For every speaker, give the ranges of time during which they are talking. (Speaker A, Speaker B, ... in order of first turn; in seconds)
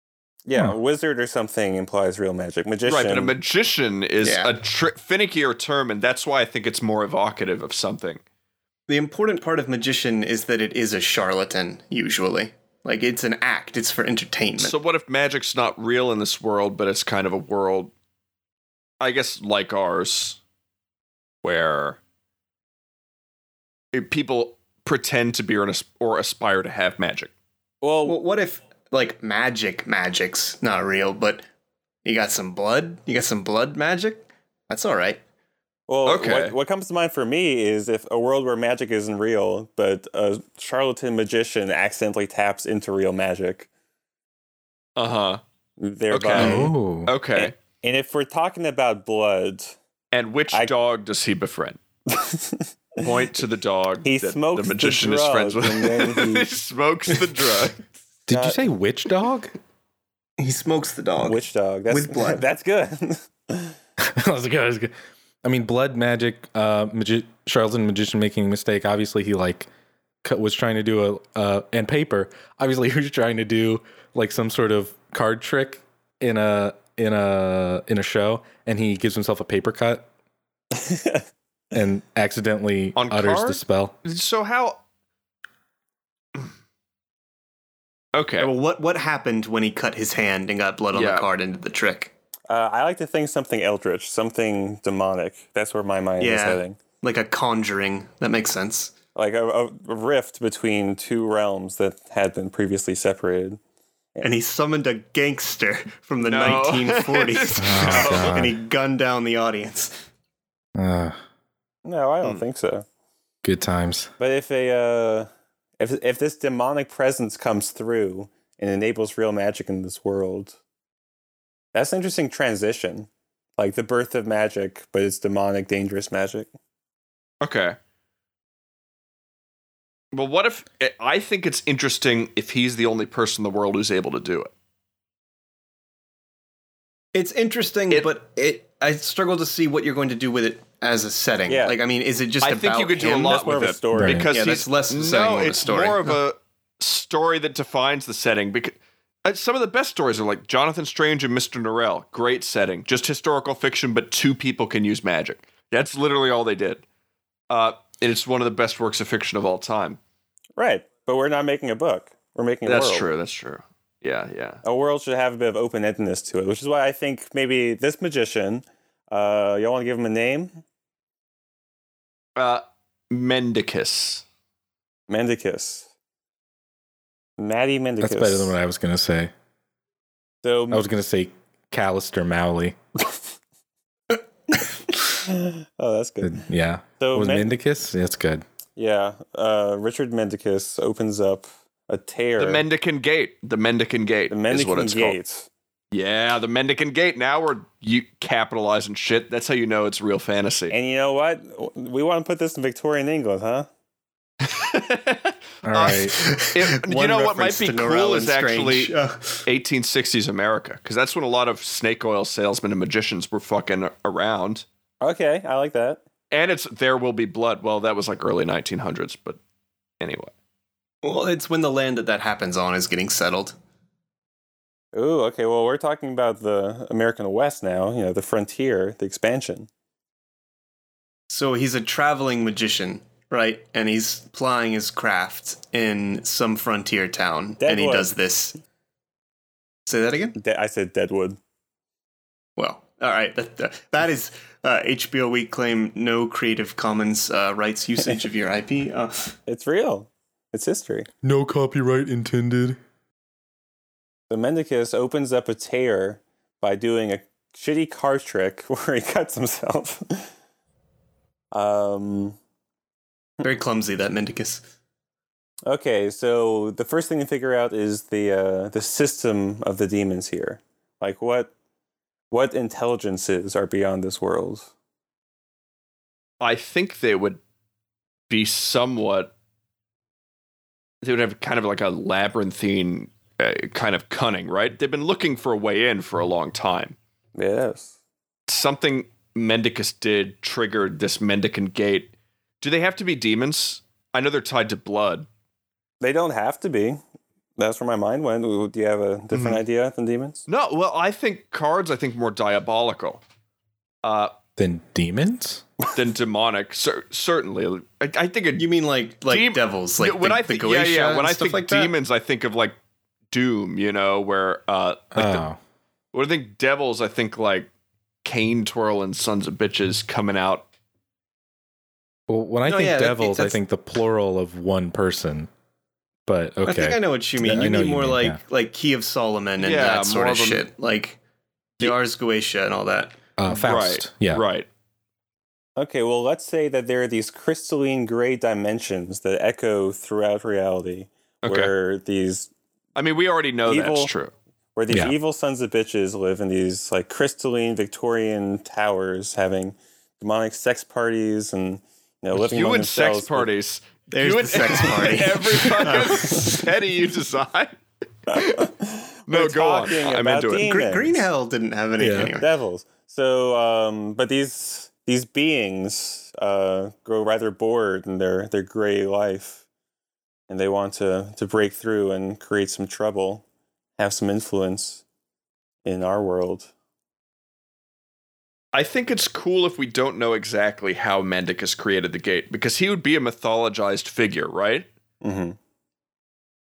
Speaker A: 0.4-3.3, 27.8-28.2, 35.9-43.7, 45.8-46.7, 47.3-49.7, 52.1-53.1, 54.0-56.5, 58.3-58.6, 61.2-63.7, 80.7-81.2, 92.5-96.8, 99.1-103.6, 111.8-112.8, 114.2-120.5, 121.7-126.5, 141.5-141.8, 143.0-144.3, 160.6-163.1, 164.6-170.6, 175.1-175.9, 177.4-178.5, 180.4-180.8, 185.2-186.4, 187.0-187.6, 188.8-192.6, 194.3-195.5, 200.7-203.7, 215.0-216.0, 224.9-229.7, 237.6-238.1, 240.3-241.4, 249.5-251.1, 254.3-260.3, 261.5-262.4, 265.6-271.5, 272.3-274.7, 287.3-287.9, 296.0-297.0, 297.6-300.4, 335.8-342.5, 343.6-344.1, 344.8-353.5, 358.3-361.2, 362.1-369.6, 370.5-373.4, 374.0-375.0, 375.8-376.7, 385.2-385.6
Speaker B: 2.9-8.2, 14.6-17.9, 19.0-20.4, 21.4-22.0, 23.9-27.3, 36.0-36.5, 45.0-45.4, 46.1-47.5, 50.1-51.8, 53.0-57.8, 83.0-84.8, 88.1-88.5, 90.9-91.3, 106.2-108.4, 127.4-127.8, 130.1-134.5, 142.4-156.8, 157.5-160.0, 162.6-164.6, 172.3-174.2, 192.4-195.2, 195.9-200.7, 204.4-208.9, 209.4-214.6, 216.3-219.4, 220.0-220.3, 276.4-277.4, 278.3-279.3, 281.0-286.9, 288.5-295.3, 299.3-299.6, 300.5-303.2, 304.0-304.3, 305.9-308.7, 309.3-312.8, 313.3-315.4, 316.1-317.7, 318.2-320.6, 329.6-330.6, 333.5-334.6, 341.4-341.7, 342.9-344.3, 352.3-357.7, 358.3-358.6, 359.3-360.7, 378.7-384.9
Speaker C: 4.2-4.5, 8.9-14.8, 28.0-31.4, 32.0-35.2, 60.4-62.4, 88.4-92.1, 96.2-98.9, 104.2-110.0, 137.1-143.5, 144.3-146.2, 206.1-209.4, 221.0-223.6, 231.3-238.6, 239.8-240.3, 242.6-249.3, 263.4-264.6, 308.6-311.9, 322.6-323.6, 326.6-331.2, 331.8-333.1, 354.1-356.6, 360.6-362.5
Speaker D: 46.3-47.1, 58.3-59.5, 64.0-64.9, 65.4-69.7, 70.2-80.0, 81.7-83.9, 107.6-108.5, 110.8-111.2, 113.4-114.1, 143.9-144.2, 178.0-179.3, 180.7-182.7, 186.2-188.4, 205.6-206.2, 251.2-252.8, 304.6-305.6, 315.1-315.6, 322.3-325.5, 326.2-328.4, 333.4-334.4, 362.0-362.3